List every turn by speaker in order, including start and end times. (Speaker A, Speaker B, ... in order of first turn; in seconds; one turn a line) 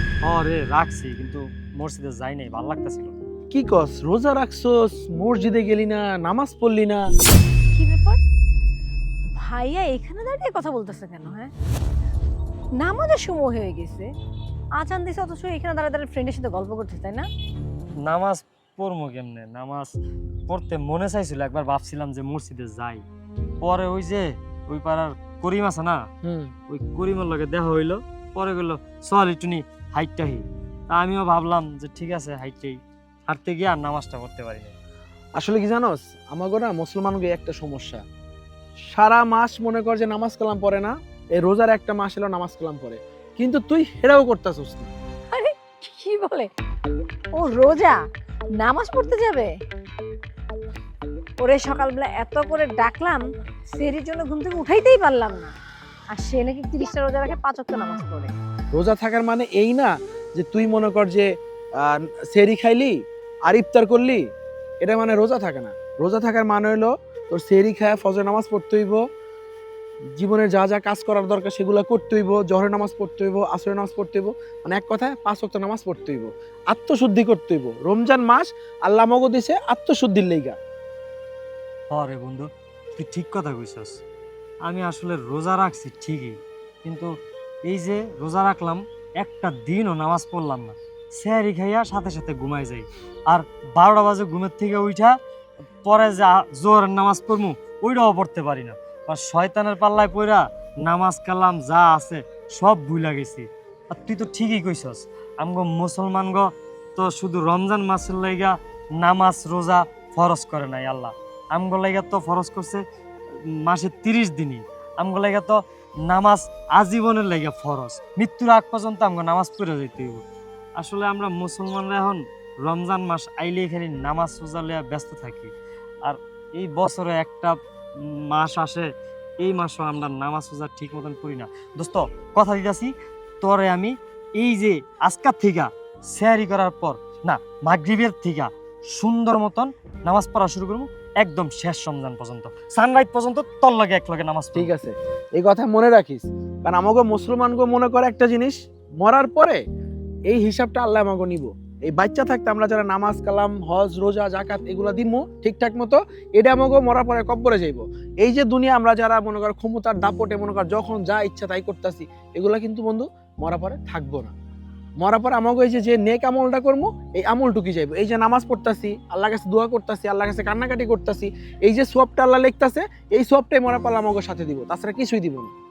Speaker A: 0.2-3.2
Speaker B: 3.5-7.0
Speaker C: 7.7-8.2
Speaker C: 9.4-11.5
Speaker C: 12.8-14.1
Speaker C: 14.8-17.3
Speaker A: 18.0-19.9
Speaker A: 20.5-23.0
Speaker A: 23.6-26.1
Speaker B: 26.2-26.5
Speaker A: 26.7-34.8
Speaker B: 35.4-38.0
Speaker B: 38.9-44.9
Speaker C: 45.3-46.5
Speaker C: 47.4-48.0
Speaker C: 48.6-49.5
Speaker C: 51.4-55.5
Speaker C: 56.1-58.3
Speaker B: 58.7-64.2
Speaker B: 64.8-69.0
Speaker B: 70.2-80.6
Speaker A: 81.9-83.9
Speaker A: 84.7-87.1
Speaker A: 87.7-95.1
Speaker A: 95.8-112.8
Speaker A: 113.5-120.2
Speaker A: 120.8-125.5
Speaker A: 126.0-128.9
Speaker A: 129.4-144.7
Speaker B: 144.5-149.6
Speaker B: 150.3-164.3
Speaker B: 165.0-175.5